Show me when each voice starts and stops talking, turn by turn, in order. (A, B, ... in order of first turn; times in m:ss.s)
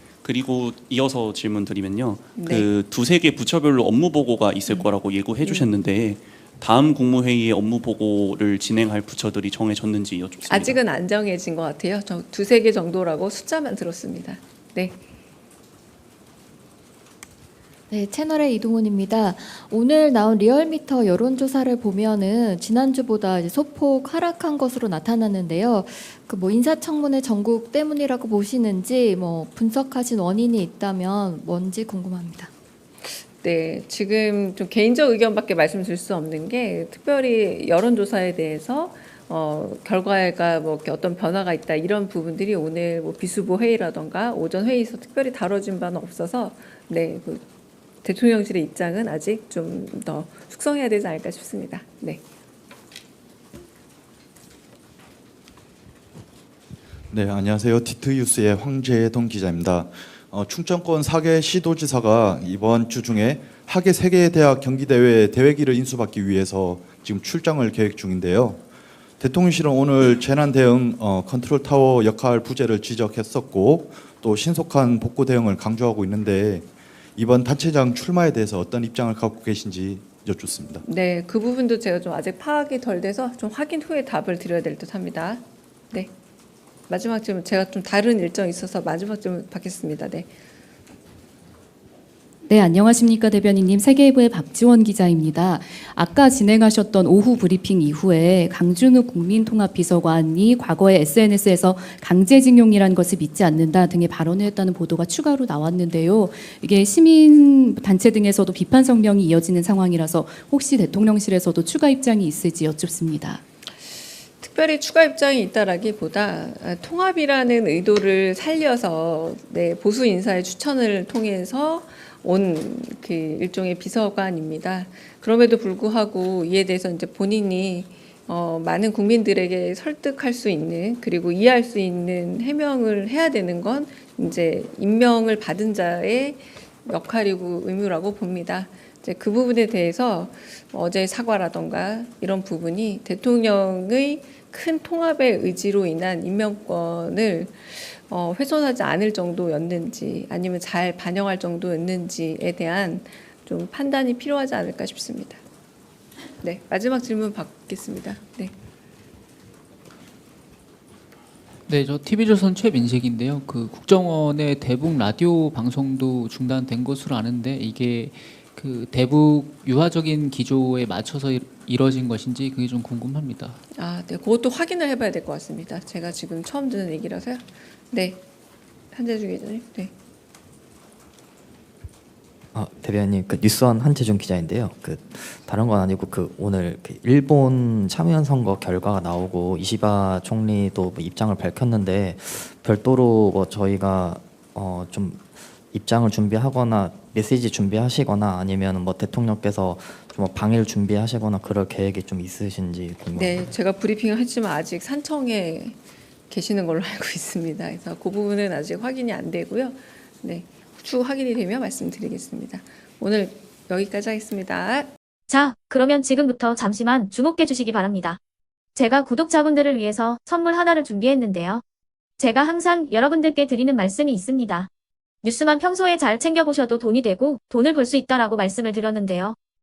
0:00.2-0:10.8 A
0:02.4-0:02.7 B
0:05.4-0:05.7 B
0:10.5-0:15.0 B
0:17.9-0:32.5 C
0:33.0-0:47.4 B
0:48.0-0:52.2 B
0:57.1-1:08.6 D
1:09.2-1:20.8 D
1:20.8-1:26.1 B
1:26.9-1:30.3 B
1:32.5-1:53.4 E
1:54.4-2:35.4 B
2:36.4-2:38.5 B
2:41.7-2:53.6 F
2:53.7-2:58.2 B
2:58.9-2:59.9 B
3:02.5-3:23.5 G
3:23.1-3:25.8 B
3:26.3-3:34.9 B
3:35.3-3:38.2 H
3:38.7-3:41.6 H
3:42.2-3:44.7 H
3:45.2-3:49.4 H